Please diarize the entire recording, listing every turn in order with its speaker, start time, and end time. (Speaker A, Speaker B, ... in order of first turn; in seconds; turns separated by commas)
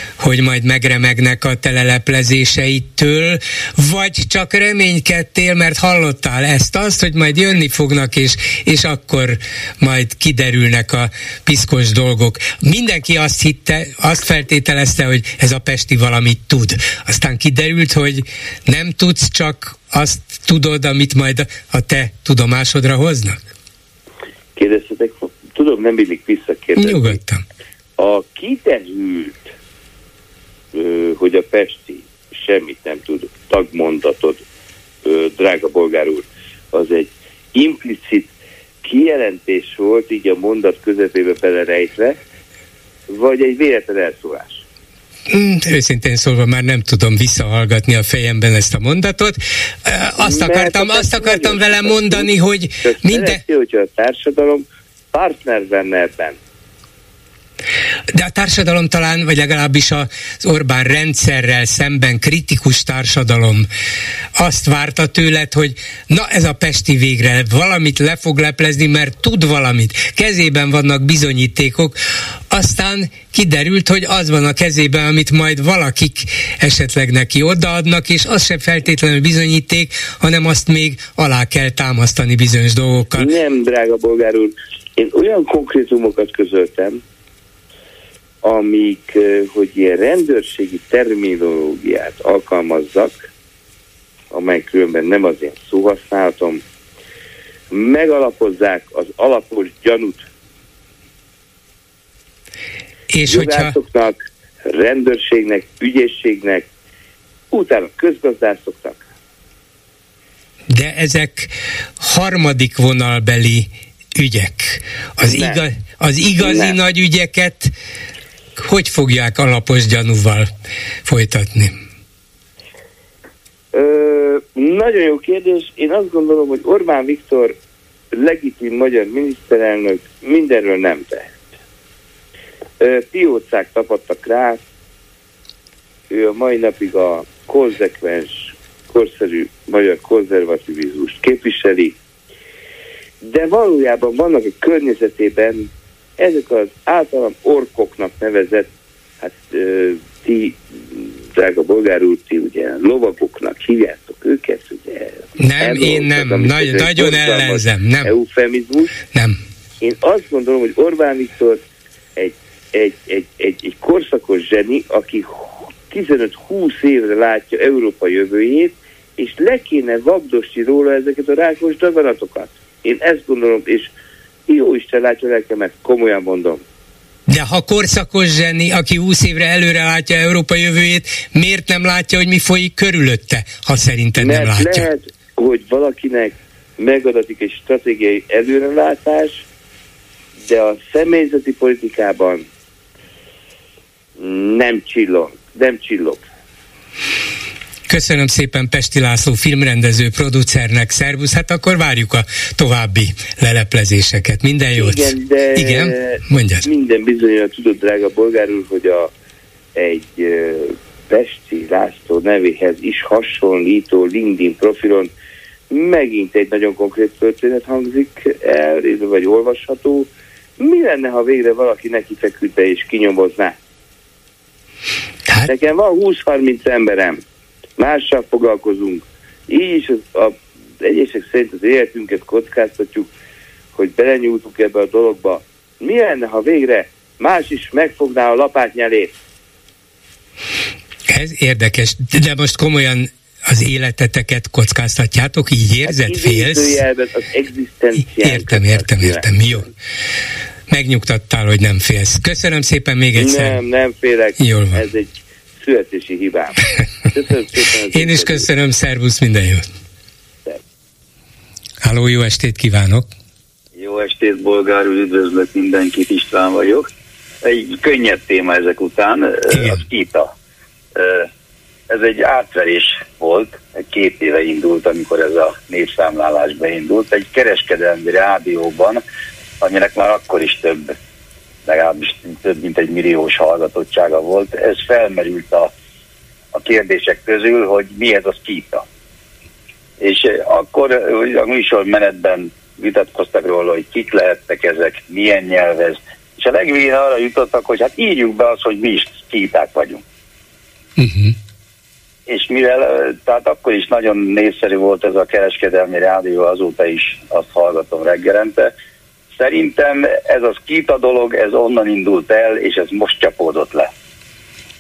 Speaker A: 0.2-23.4, Speaker B: 24.6-27.2, Speaker A: 26.8-27.4, Speaker B: 28.0-29.5, Speaker B: 30.7-34.4, Speaker B: 35.0-42.2, Speaker B: 43.1-44.6, Speaker A: 45.3-53.4, Speaker B: 50.2-56.4, Speaker A: 58.1-63.7, Speaker A: 64.4-72.0, Speaker A: 72.5-83.3, Speaker B: 83.2-87.0, Speaker B: 88.4-93.3, Speaker B: 94.3-96.6, Speaker B: 97.7-100.3, Speaker A: 103.1-103.8, Speaker B: 103.3-106.7, Speaker B: 107.5-109.0, Speaker A: 110.7-117.7, Speaker B: 115.2-115.7, Speaker B: 116.4-116.8, Speaker A: 118.6-120.5, Speaker A: 121.1-121.7, Speaker B: 123.7-127.5, Speaker B: 128.1-131.3, Speaker B: 132.8-134.6, Speaker B: 136.1-142.0, Speaker B: 143.2-148.7, Speaker B: 149.2-159.0, Speaker A: 155.4-158.1, Speaker B: 159.8-161.6, Speaker B: 162.2-173.9, Speaker B: 174.5-176.6, Speaker A: 177.3-184.9, Speaker B: 184.2-189.4, Speaker B: 190.5-192.5, Speaker B: 194.2-196.2, Speaker A: 197.9-206.7, Speaker B: 204.8-209.1, Speaker B: 209.8-215.1, Speaker B: 215.7-223.6, Speaker B: 225.5-227.2, Speaker B: 227.8-233.1, Speaker B: 233.8-239.1, Speaker A: 241.1-246.8, Speaker B: 245.8-249.3, Speaker A: 248.2-249.7, Speaker A: 250.7-253.6, Speaker B: 253.2-258.5, Speaker A: 254.4-254.8, Speaker A: 257.9-259.6, Speaker A: 261.8-263.1, Speaker C: 263.8-266.9, Speaker C: 267.4-270.3, Speaker A: 269.5-269.8, Speaker C: 271.0-271.3, Speaker C: 271.9-279.0, Speaker C: 279.6-280.9, Speaker C: 281.7-285.7, Speaker C: 286.5-288.9, Speaker C: 290.0-300.0, Speaker A: 301.0-301.4, Speaker C: 302.3-308.7, Speaker C: 309.3-313.9